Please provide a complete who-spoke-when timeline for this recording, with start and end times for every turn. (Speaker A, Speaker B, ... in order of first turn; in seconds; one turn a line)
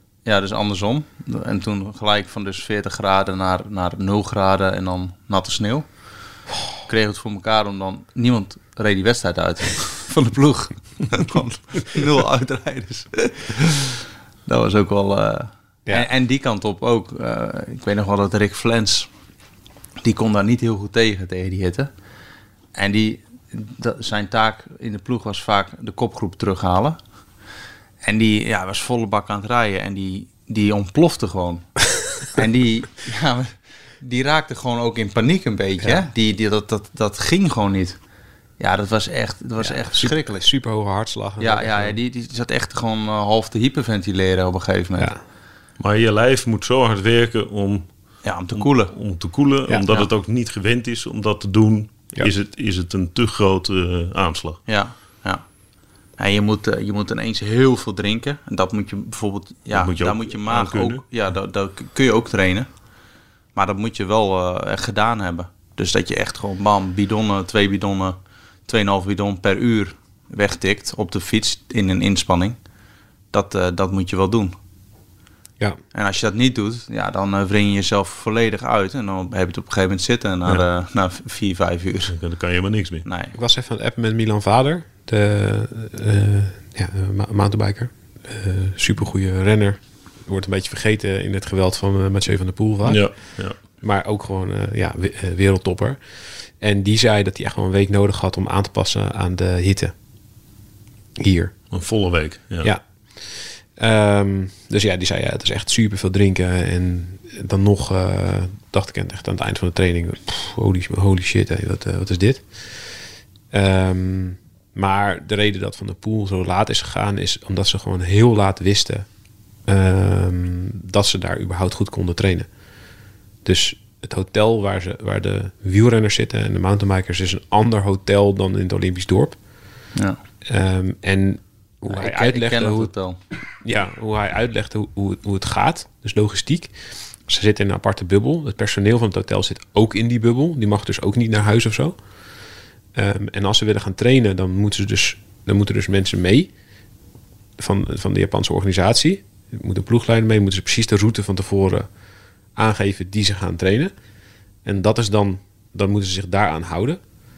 Speaker A: 0.3-5.9
Speaker A: 6.9-19.1
Speaker A: 20.0-21.9
Speaker A: 22.8-27.0
Speaker A: 28.0-38.0
Speaker A: 38.6-40.5
Speaker B: 39.6-42.0
Speaker A: 41.4-45.1
Speaker C: 45.8-47.9
Speaker A: 48.2-48.9
Speaker C: 48.5-54.6
Speaker A: 54.7-55.4
Speaker A: 56.2-62.7
Speaker C: 59.7-61.0
Speaker A: 63.5-72.6
Speaker A: 73.3-74.5
Speaker A: 75.9-82.2
Speaker C: 82.1-83.1
Speaker A: 83.0-83.3
Speaker B: 83.3-96.0
Speaker C: 92.9-93.6
Speaker B: 96.6-99.9
Speaker B: 101.2-101.6
Speaker C: 101.7-102.7
Speaker B: 102.6-112.8
Speaker B: 113.5-119.1
Speaker B: 119.7-122.5
Speaker B: 123.5-129.4
Speaker B: 130.5-132.9
Speaker A: 131.9-133.2
Speaker B: 133.6-136.7
Speaker B: 137.3-142.0
Speaker B: 142.9-146.5
Speaker B: 147.6-151.9
Speaker B: 152.6-153.9
Speaker B: 154.7-157.0